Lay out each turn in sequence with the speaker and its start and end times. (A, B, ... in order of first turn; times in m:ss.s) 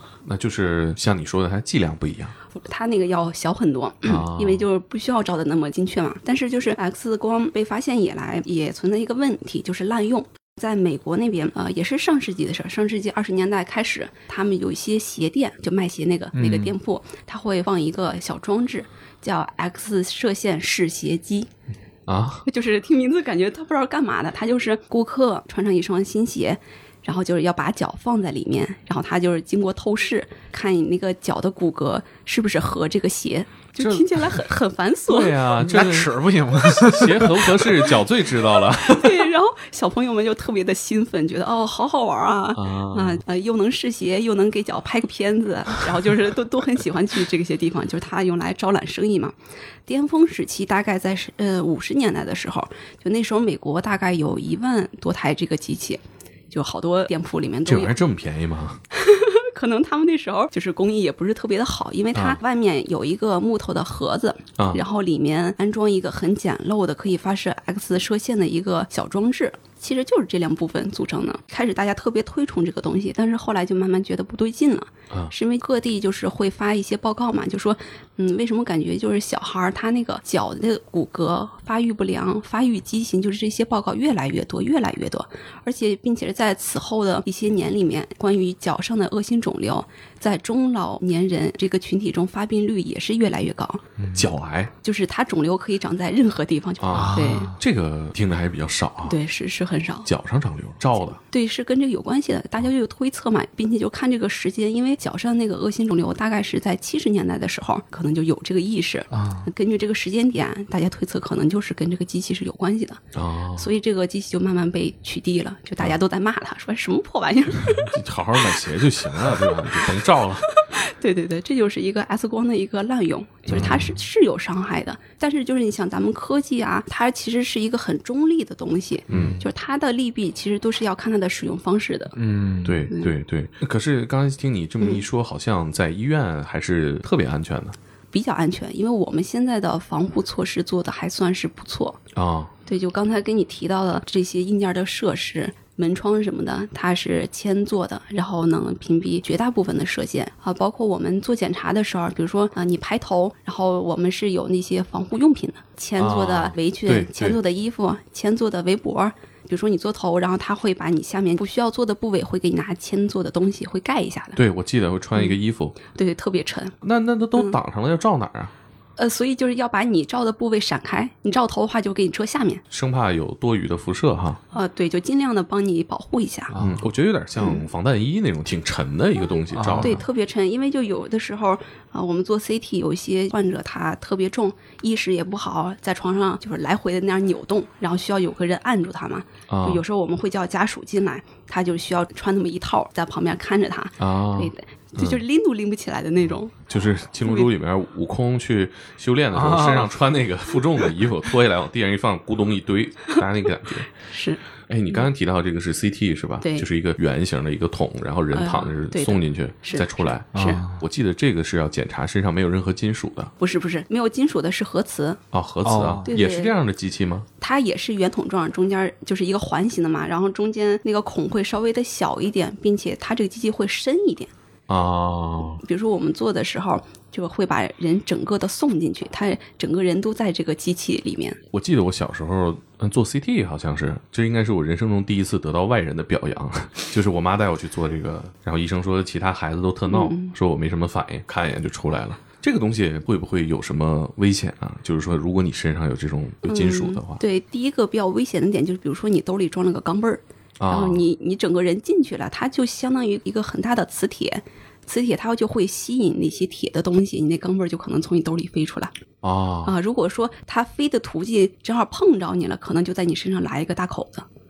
0:00.2-0:02.3 A
0:02.5-0:21.5 B
0:04.0-0:04.7 A
0:16.3-0:16.8 C
0:22.1-0:22.4 A
0:22.4-0:35.4 B
0:33.8-0:34.4 A
0:35.1-0:39.3 A
0:35.6-0:37.9 C
0:38.7-0:49.3 B
0:42.5-0:43.2 A
0:49.9-0:58.0 B
0:57.6-0:58.8 A
0:58.9-1:33.8 B
1:04.6-1:04.8 A
1:34.0-1:34.3 C
1:34.1-1:34.7 A
1:34.8-1:37.5 B
1:36.8-1:39.2 A
1:36.9-1:37.6 C
1:39.0-1:40.1 B
1:40.0-1:41.2 A
1:41.2-1:53.0 B
1:49.1-1:49.5 C
1:53.1-1:53.7 A
1:53.6-1:57.9 B
1:57.6-2:00.5 A
1:59.3-1:59.7 B
2:00.6-2:12.2 B
2:03.5-2:03.9 A
2:09.1-2:09.4 A
2:09.1-2:09.4 C
2:12.2-2:12.8 C
2:12.6-2:17.8 A
2:18.1-2:22.0 B
2:22.1-2:22.5 A
2:22.7-2:44.4 B
2:36.0-2:37.4 A
2:44.4-2:45.8 A
2:45.9-2:46.8 B
2:46.8-2:48.5 A
2:49.0-2:52.6 B
2:52.7-2:54.4 A
2:54.5-2:56.5 B
2:56.5-2:56.8 C
2:56.6-3:00.0 A
2:57.4-2:57.6 B
2:59.5-3:00.0 C
2:59.8-3:16.5 B
3:09.5-3:09.8 A
3:14.0-3:15.2 A
3:16.7-3:23.9 A
3:17.2-3:17.5 B
3:19.3-3:19.9 C
3:24.0-3:24.4 B
3:24.7-3:33.3 A
3:26.4-3:26.7 B
3:28.3-3:30.6 B
3:30.3-3:30.8 C
3:33.4-3:35.2 B
3:35.3-3:37.3 A
3:35.6-3:36.1 C
3:36.0-3:36.5 B
3:37.4-3:44.3 B
3:44.7-3:45.6 A
3:45.6-3:51.4 B
3:51.5-4:07.2 A
3:59.9-4:00.3 B
4:06.4-4:18.9 B
4:10.6-4:11.0 A
4:19.2-4:19.7 A
4:19.6-4:24.3 B